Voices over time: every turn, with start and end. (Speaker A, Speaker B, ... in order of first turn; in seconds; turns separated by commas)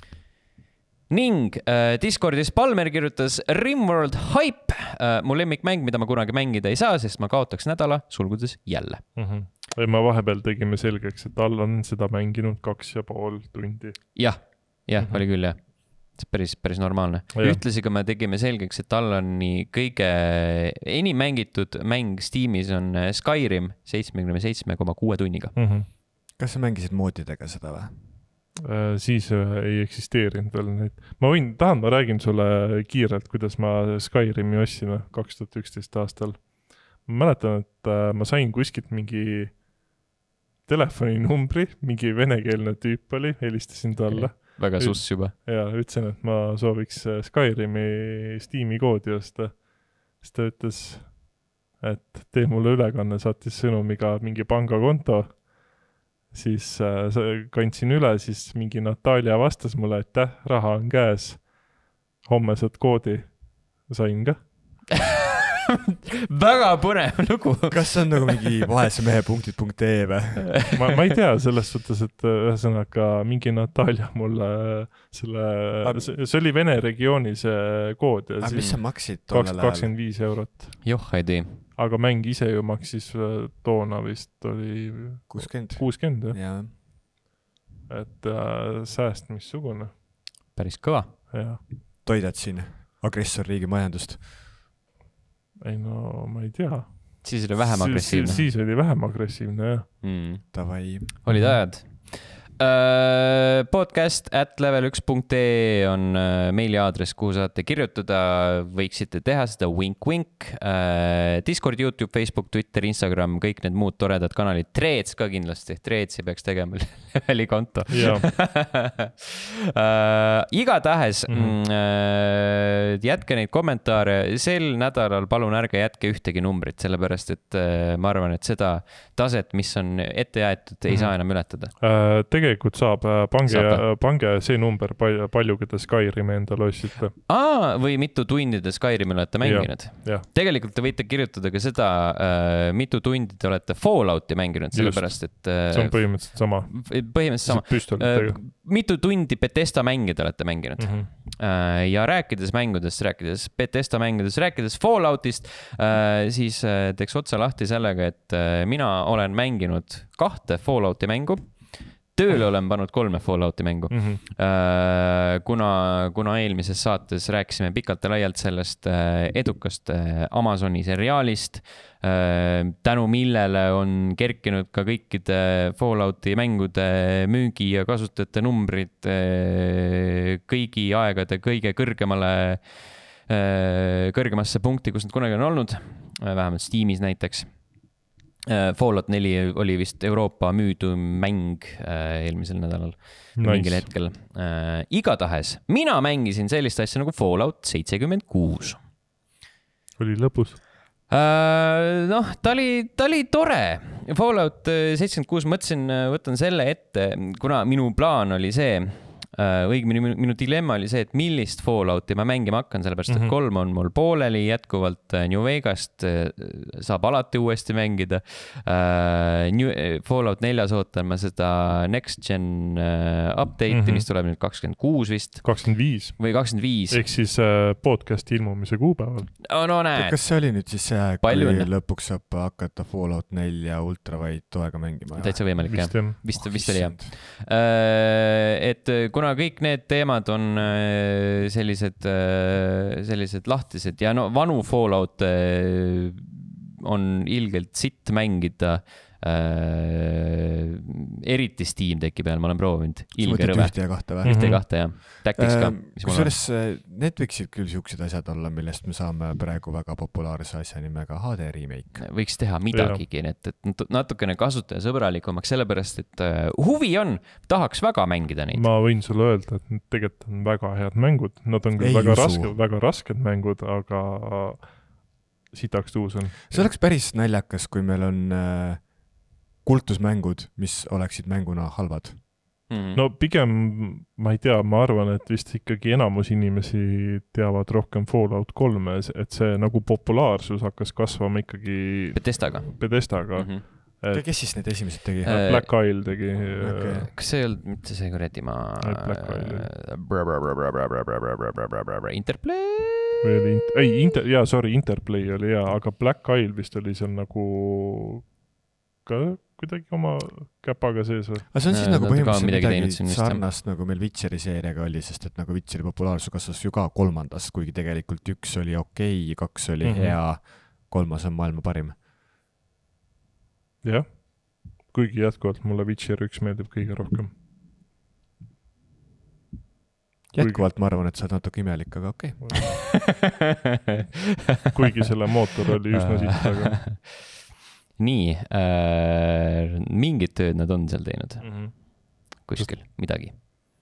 Speaker A: 1.1-9.0, Speaker B: 9.1-15.2, Speaker A: 14.1-25.6, Speaker B: 17.3-17.6, Speaker B: 25.5-25.9, Speaker C: 26.3-27.9, Speaker B: 28.6-39.6, Speaker B: 40.7-55.7, Speaker A: 44.1-45.3, Speaker B: 56.3-64.5, Speaker A: 66.2-68.7, Speaker C: 67.7-70.5, Speaker B: 70.7-81.1, Speaker C: 75.8-76.2, Speaker C: 78.4-79.9, Speaker A: 78.5-78.8, Speaker A: 80.8-81.6, Speaker B: 81.8-86.4, Speaker C: 85.3-86.7, Speaker B: 87.9-90.0, Speaker A: 90.5-91.2, Speaker B: 91.3-91.6, Speaker C: 92.0-94.3, Speaker B: 95.6-99.9, Speaker A: 97.2-98.4, Speaker A: 100.0-131.7, Speaker C: 100.5-101.1, Speaker B: 101.3-101.6, Speaker B: 117.9-118.2, Speaker B: 121.3-121.6, Speaker B: 130.9-137.2, Speaker A: 133.4-133.8, Speaker A: 137.2-187.9, Speaker B: 139.4-140.3, Speaker B: 144.7-148.4, Speaker B: 150.8-151.1, Speaker B: 163.9-164.2, Speaker A: 188.5-198.8, Speaker B: 193.3-193.9, Speaker B: 200.0-200.6, Speaker A: 201.1-227.1, Speaker B: 213.1-213.3, Speaker B: 223.7-224.1, Speaker B: 225.4-229.4, Speaker A: 229.4-230.7, Speaker C: 229.9-237.2, Speaker A: 231.2-231.7, Speaker A: 235.2-256.4, Speaker B: 235.6-236.2, Speaker C: 253.2-262.0, Speaker B: 254.2-254.7, Speaker A: 261.9-268.7, Speaker B: 262.7-263.0, Speaker B: 268.5-276.7, Speaker C: 271.8-272.6, Speaker C: 276.5-282.2, Speaker A: 282.7-283.0, Speaker B: 282.9-297.1, Speaker A: 292.1-293.6, Speaker C: 294.1-295.6, Speaker A: 295.2-295.7, Speaker C: 296.6-297.1, Speaker A: 297.1-303.2, Speaker B: 298.8-299.7, Speaker B: 303.2-308.4, Speaker B: 309.0-311.5, Speaker C: 311.5-321.9, Speaker A: 311.7-313.4, Speaker B: 319.8-320.2, Speaker B: 323.8-327.3, Speaker C: 330.3-332.6, Speaker B: 330.4-330.6, Speaker B: 332.4-332.8, Speaker B: 334.3-337.0, Speaker A: 334.3-334.7, Speaker A: 335.9-337.1, Speaker A: 338.0-343.3, Speaker B: 341.4-342.7